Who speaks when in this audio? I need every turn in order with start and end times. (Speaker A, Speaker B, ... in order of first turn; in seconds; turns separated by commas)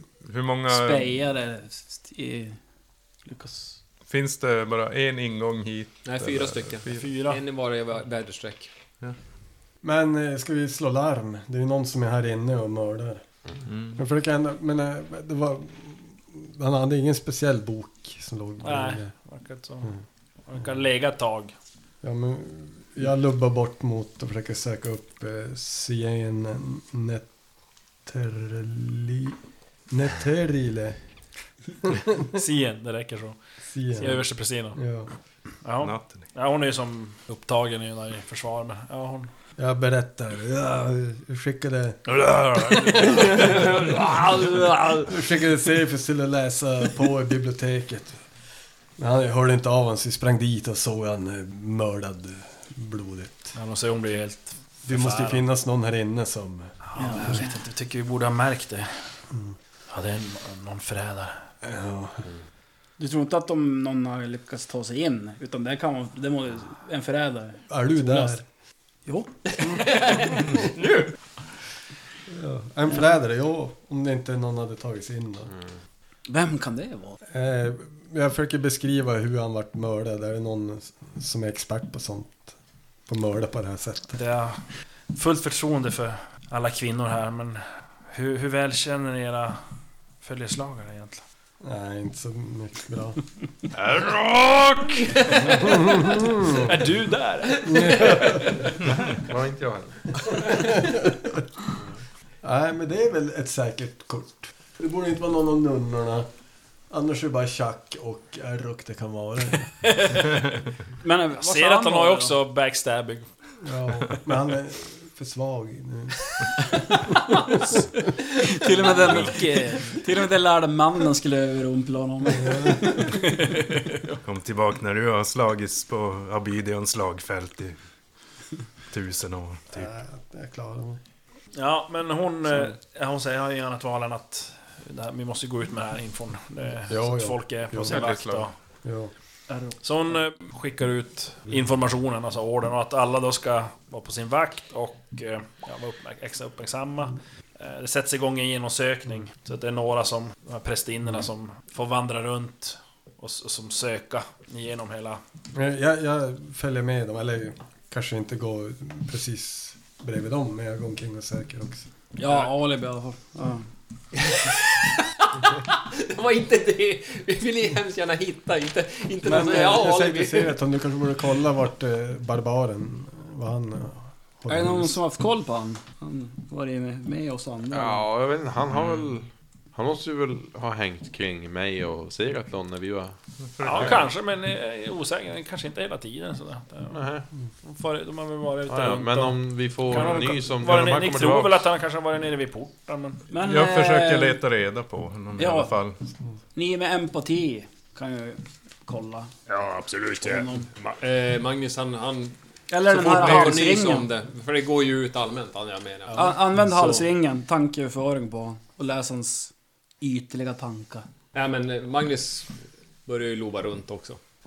Speaker A: 0.2-1.1, Speaker B: 0.7-2.6, Speaker B: 3.2-3.8, Speaker A: 4.1-7.1, Speaker C: 6.0-8.7, Speaker D: 6.9-7.4, Speaker E: 9.8-13.2, Speaker A: 13.7-14.0, Speaker E: 13.9-19.1, Speaker D: 18.6-21.6, Speaker E: 22.0-27.3, Speaker E: 28.1-31.0, Speaker E: 31.8-32.3, Speaker D: 32.3-33.4, Speaker E: 33.7-35.1, Speaker D: 34.0-34.8, Speaker D: 35.6-39.3, Speaker A: 35.8-36.3, Speaker E: 39.6-44.2, Speaker D: 42.1-45.3, Speaker E: 45.1-48.2, Speaker E: 49.0-53.5, Speaker D: 53.5-55.4, Speaker E: 54.9-56.8, Speaker D: 56.8-59.1, Speaker B: 57.0-57.6, Speaker D: 59.9-61.4, Speaker E: 61.6-62.2, Speaker B: 63.0-68.3, Speaker E: 67.7-68.4, Speaker C: 69.5-71.1, Speaker E: 72.3-75.5, Speaker B: 76.3-77.2, Speaker E: 77.2-82.6, Speaker E: 83.1-84.2, Speaker D: 84.1-89.6, Speaker D: 90.2-91.2, Speaker E: 91.6-93.2, Speaker F: 93.8-94.6, Speaker D: 94.9-98.8, Speaker E: 95.4-96.7, Speaker E: 97.6-98.5, Speaker F: 98.8-100.3, Speaker E: 100.2-101.5, Speaker E: 102.4-106.3, Speaker E: 106.9-109.7, Speaker D: 109.8-110.3, Speaker B: 111.0-112.4, Speaker D: 111.4-113.3, Speaker E: 113.6-116.3, Speaker B: 118.4-123.5, Speaker E: 122.3-123.1, Speaker A: 124.2-127.8, Speaker A: 128.9-129.9, Speaker E: 129.7-131.0, Speaker D: 131.5-138.5, Speaker E: 136.9-138.1, Speaker A: 137.8-138.5, Speaker E: 138.8-139.1, Speaker B: 139.5-139.8, Speaker D: 139.8-155.2, Speaker E: 155.5-161.8, Speaker B: 162.2-163.7, Speaker C: 164.2-170.6, Speaker E: 169.2-175.0, Speaker B: 174.5-178.0, Speaker F: 177.7-183.2, Speaker A: 178.8-179.0, Speaker A: 183.4-184.1, Speaker D: 183.6-187.0, Speaker F: 183.7-184.0, Speaker F: 186.9-187.3, Speaker D: 187.6-193.2, Speaker F: 188.7-191.7, Speaker B: 193.3-194.4, Speaker A: 193.4-196.1, Speaker B: 195.4-195.7, Speaker B: 196.5-199.3, Speaker C: 199.5-207.0, Speaker B: 200.2-200.7, Speaker B: 202.7-204.1, Speaker D: 203.2-203.5, Speaker D: 206.1-206.4, Speaker B: 206.2-211.1, Speaker C: 211.3-212.5, Speaker C: 213.1-214.2